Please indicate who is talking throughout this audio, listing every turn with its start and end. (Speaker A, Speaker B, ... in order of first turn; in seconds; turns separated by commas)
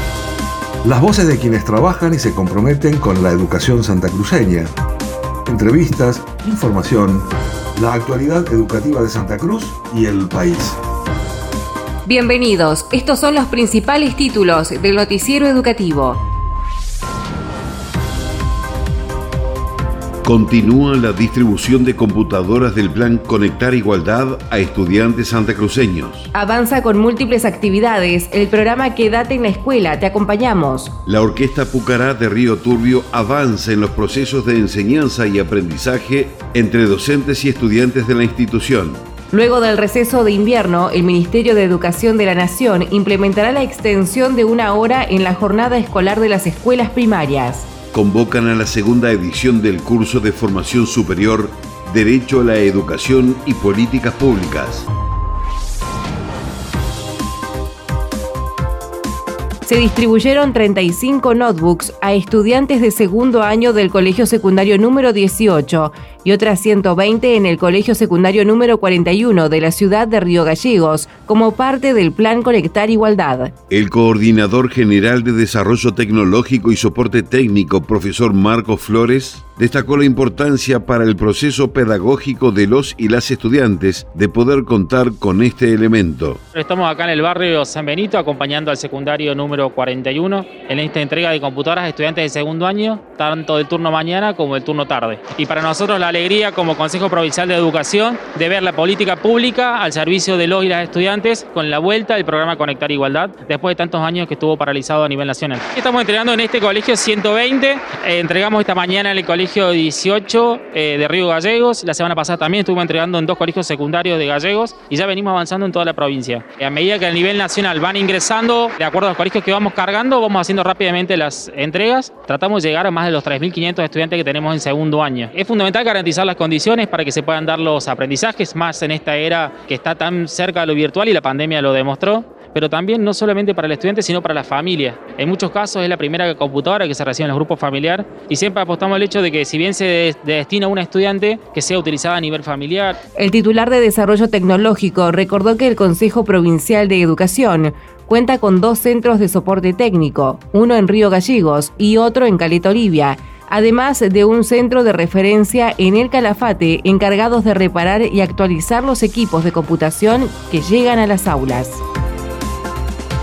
Speaker A: 0.8-4.7, Speaker A: 5.5-10.8, Speaker B: 12.1-16.2, Speaker C: 20.2-26.3, Speaker B: 26.3-30.9, Speaker C: 31.1-39.0, Speaker B: 39.3-47.7, Speaker C: 47.9-54.9, Speaker B: 59.6-73.5, Speaker C: 73.7-86.4, Speaker D: 86.5-143.0, Speaker B: 143.2-161.8